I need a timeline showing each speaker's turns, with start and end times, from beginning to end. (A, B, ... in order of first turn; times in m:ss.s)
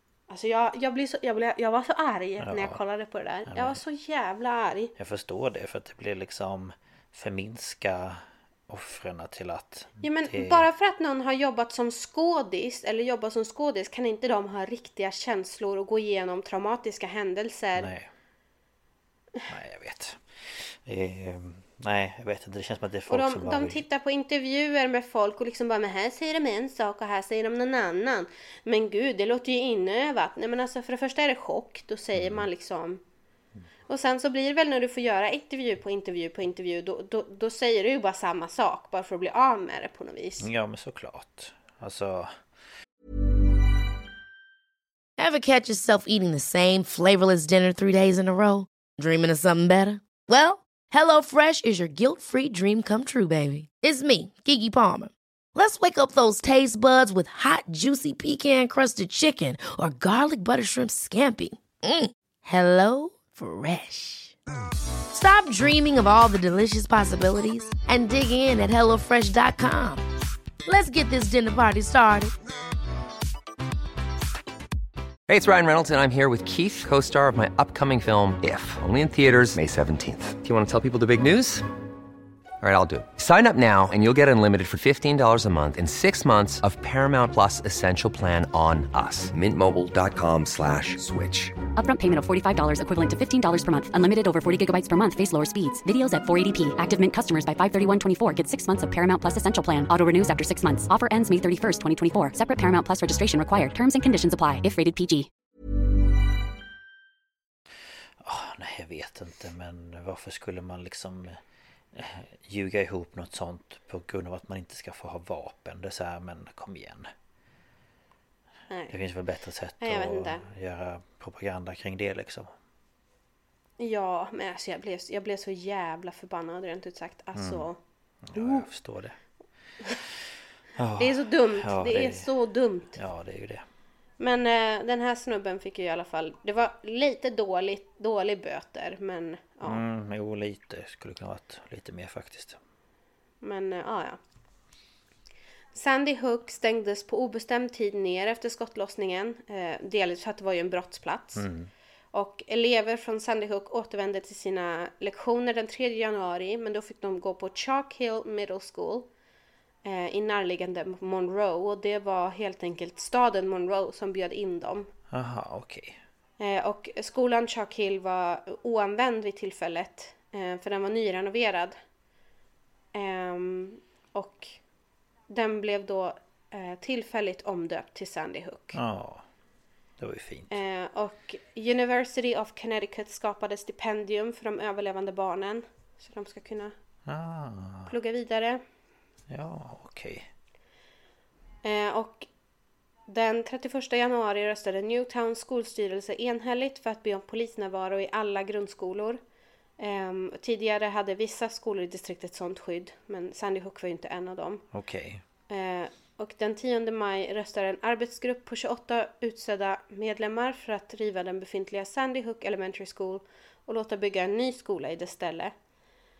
0:00.3-0:04.9 A
0:02.4-0:02.8 B
0:03.5-0:03.8 B
0:05.0-0:10.7 B
0:10.0-0:17.9 A
0:17.8-0:18.1 B
0:19.5-0:23.8 B
0:23.1-0:33.0 A
0:32.1-0:32.5 B
0:33.9-0:40.5 A
0:40.4-0:42.4 B
0:45.2-1:04.3 C
1:05.1-1:10.0 C
1:10.6-1:12.3 C
1:15.3-1:21.7 D
1:22.6-1:31.6 D
1:31.8-1:45.3 E
1:48.2-1:51.4 B
1:51.9-1:57.1 B
1:58.7-1:59.0 A
1:58.9-2:02.5 B
1:59.8-2:00.5 A
2:03.8-2:07.8 A
2:07.3-2:07.7 B
2:08.2-2:09.2 B
2:08.3-2:08.7 A
2:10.8-2:12.3 B
2:11.0-2:13.0 A
2:12.9-2:13.6 B
2:14.2-2:19.8 A
2:19.6-2:22.6 B
2:23.4-2:24.2 A
2:25.7-2:31.5 A
2:31.4-2:31.7 B
2:32.1-2:39.1 A
2:39.8-2:44.9 A
2:45.1-2:46.0 B
2:46.4-2:51.7 A
2:52.9-2:54.6 A
2:55.3-2:58.8 A
2:58.7-2:59.2 B
3:00.0-3:00.6 B
3:00.5-3:06.7 A
3:07.0-3:07.9 B
3:07.9-3:08.6 A
3:09.3-3:10.3 B
3:11.6-3:12.3 A
3:13.1-3:19.2 A
3:19.8-3:24.6 A
3:24.7-3:25.2 B
3:25.5-3:35.5 A